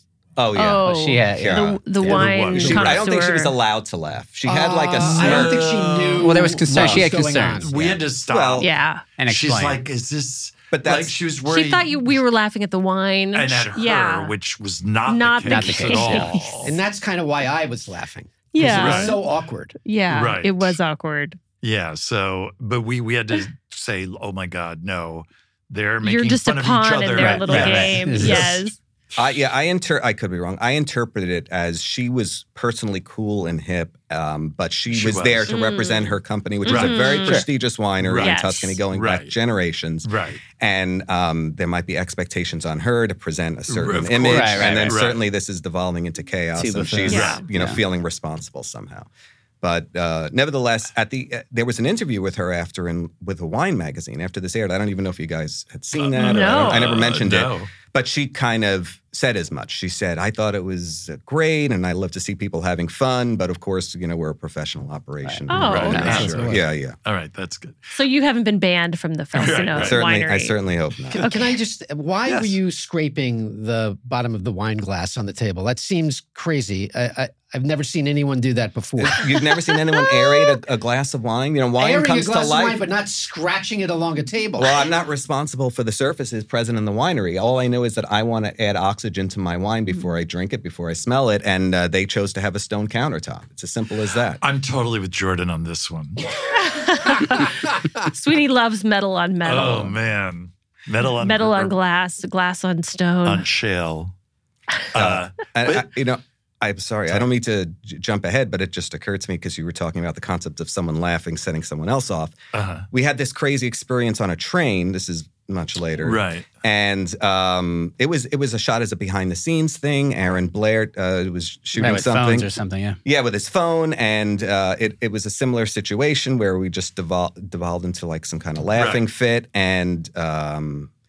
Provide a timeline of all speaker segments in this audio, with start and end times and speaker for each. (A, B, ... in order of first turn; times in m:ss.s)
0:00.4-0:05.6 A
0:00.5-0:03.6 B
0:00.8-0:02.3 C
0:02.1-0:03.0 D
0:04.4-0:08.0 E
0:05.0-0:07.0 D
0:06.2-0:07.8 C
0:07.6-0:08.7 D
0:08.3-0:08.7 A
0:08.6-0:09.0 B
0:09.2-0:09.8 C
0:09.3-0:12.2 D
0:10.7-0:11.2 A
0:11.5-0:14.3 B
0:13.3-0:16.7 D
0:15.1-0:16.7 B
0:15.4-0:16.3 C
0:16.6-0:19.8 E
0:18.5-0:19.2 B
0:18.6-0:19.2 D
0:19.8-0:21.4 B
0:20.1-0:20.8 D
0:21.6-0:28.6 D
0:26.0-0:28.8 B
0:27.2-0:28.6 C
0:29.2-0:49.1 A
0:34.9-0:35.5 D
0:35.5-0:36.1 B
0:36.6-0:37.4 B
0:36.6-0:37.3 D
0:38.0-0:39.3 D
0:38.2-0:38.8 B
0:40.0-0:40.4 D
0:43.7-0:45.2 D
0:44.3-0:44.9 C
0:46.6-0:47.8 C
0:47.1-0:47.4 D
0:47.1-0:47.4 B
0:49.6-1:07.0 A
0:56.0-0:57.7 D
0:56.2-0:56.9 B
1:05.2-1:06.6 C
1:05.5-1:06.2 B
1:05.7-1:07.9 D
1:07.9-1:10.5 B
1:09.3-1:10.0 D
1:09.8-1:11.2 A
1:11.2-1:19.2 E
1:11.2-1:11.6 B
1:12.2-1:12.6 D
1:19.0-1:22.8 A
1:21.8-1:24.8 E
1:24.6-1:34.4 A
1:34.4-1:36.2 D
1:36.5-1:40.0 B
1:39.4-1:41.7 D
1:41.2-1:43.4 B
1:43.2-1:44.1 D
1:44.9-1:45.9 D
1:44.9-1:52.4 A
1:52.5-1:52.8 D
1:52.9-2:02.5 A
1:56.0-1:56.5 D
2:01.8-2:03.0 C
2:03.0-2:10.9 A
2:08.8-2:09.0 D